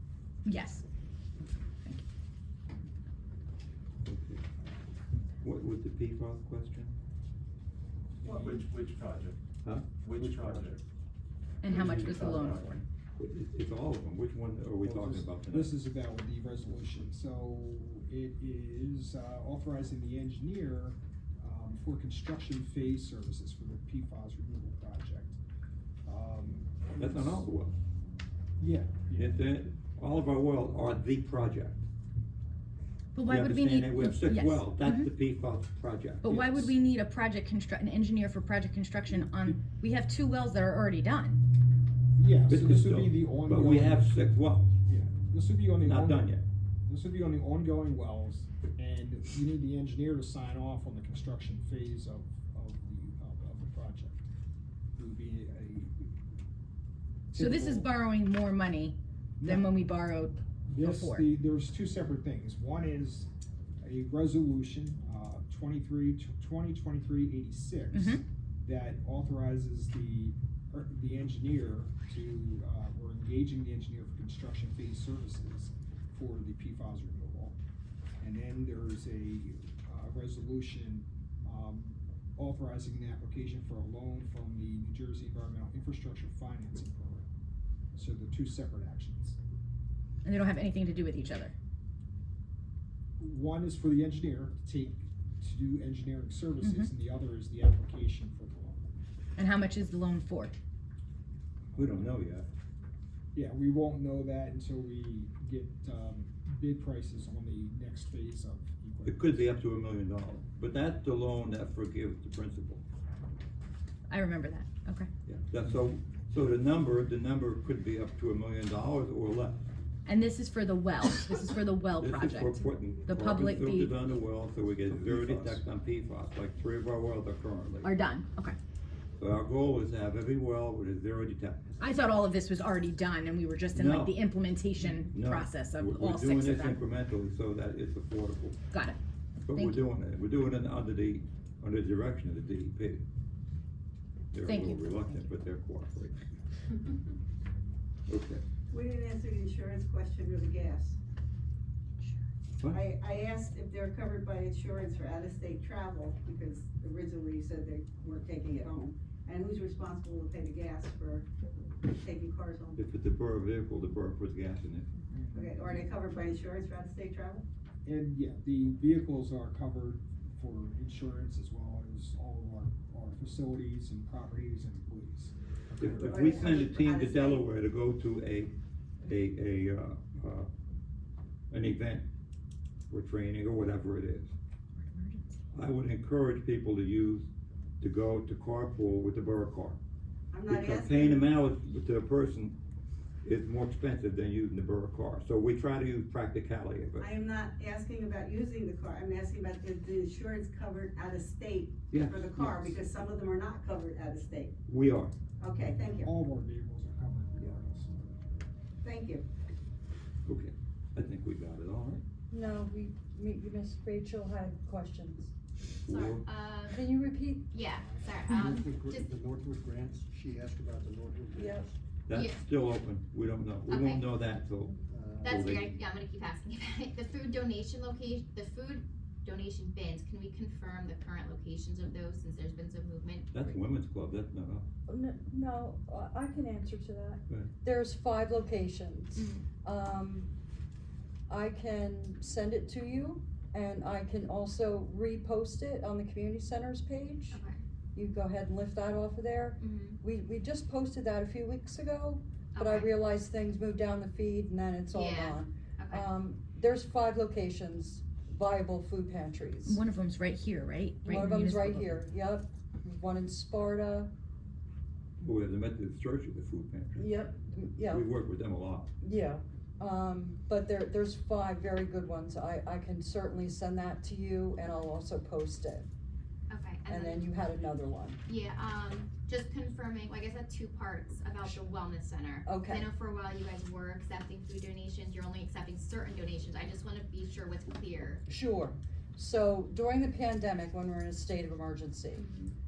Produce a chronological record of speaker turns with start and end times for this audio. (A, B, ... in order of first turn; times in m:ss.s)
0:00.4-0:00.8 A
0:04.0-0:04.4 B
0:05.4-0:07.0 B
0:08.2-0:08.7 C
0:08.2-0:08.5 D
0:08.4-0:09.4 E
0:10.0-0:10.8 E
0:11.6-0:12.8 A
0:11.6-0:12.8 E
0:13.2-0:15.8 B
0:14.8-0:25.4 C
0:26.1-0:27.5 C
0:27.0-0:27.8 B
0:28.6-0:29.4 C
0:29.2-0:31.8 B
0:33.2-0:35.1 A
0:33.2-0:36.3 B
0:36.2-0:41.4 A
0:36.3-0:36.7 C
0:42.2-0:44.1 C
0:42.5-0:44.7 B
0:44.9-0:46.4 C
0:45.8-0:46.4 B
0:46.9-0:54.2 C
0:55.0-0:56.1 C
0:57.3-0:57.9 C
0:57.3-1:01.3 A
0:59.4-0:59.7 C
1:00.7-1:03.3 C
1:03.8-1:17.6 C
1:07.9-1:08.2 A
1:18.2-1:27.3 C
1:28.0-1:29.4 C
1:30.2-1:31.5 A
1:33.2-1:38.9 C
1:36.6-1:36.9 A
1:39.4-1:40.5 A
1:41.8-1:42.2 C
1:41.8-1:42.5 B
1:43.4-1:49.5 C
1:49.1-1:52.8 B
1:54.1-1:55.1 A
1:55.3-1:59.7 B
2:00.1-2:04.0 A
2:02.0-2:07.9 B
2:07.8-2:08.6 A
2:09.2-2:11.8 B
2:11.8-2:16.7 A
2:13.7-2:14.2 B
2:15.1-2:18.6 B
2:18.7-2:19.9 A
2:19.4-2:23.0 B
2:24.3-2:26.2 B
2:24.5-2:25.3 A
2:28.1-2:28.4 B
2:28.7-2:31.0 D
2:32.7-2:41.3 D
2:41.8-2:42.8 D
2:42.8-2:44.9 B
2:45.1-2:45.9 C
2:45.3-2:47.5 D
2:47.8-2:56.3 C
2:55.8-3:00.5 B
2:55.8-2:57.5 D
3:01.5-3:02.1 B
3:02.9-3:04.3 B
3:04.8-3:05.4 A
3:05.5-3:07.3 B
3:07.8-3:09.8 B
3:10.3-3:11.3 D
3:10.5-3:12.6 B
3:13.2-3:17.1 B
3:17.0-3:24.6 D
3:21.9-3:22.8 B
3:24.7-3:25.1 B
3:25.4-3:26.1 D
3:26.0-3:28.2 C
3:28.8-3:29.3 D
3:30.3-3:32.0 B
3:32.3-3:35.3 F
3:35.8-3:36.9 G
3:35.9-3:36.2 B
3:36.7-3:37.5 F
3:37.5-3:39.1 G
3:37.9-3:41.7 H
3:38.4-3:38.6 F
3:41.4-3:41.7 F
3:42.1-3:45.7 B
3:42.1-3:42.4 G
3:43.7-3:44.1 G
3:44.9-3:45.6 H
3:45.2-3:53.5 G
3:53.3-3:54.7 B
3:54.9-4:00.3 F
3:59.2-3:59.4 G
4:01.3-4:07.4 F
4:07.3-4:07.6 G
4:08.0-4:19.8 F
4:09.6-4:10.0 G
4:12.5-4:12.9 G
4:14.9-4:16.1 G
4:19.6-4:22.0 A
4:21.1-4:24.1 F
4:25.2-4:27.1 B
4:27.0-4:28.0 F
4:27.9-4:28.9 B
4:29.0-4:35.9 F
4:36.5-4:37.3 G
4:36.9-4:38.2 F
4:38.3-4:48.2 G
4:42.4-4:42.9 F
4:48.3-4:52.3 F
4:52.2-4:52.6 G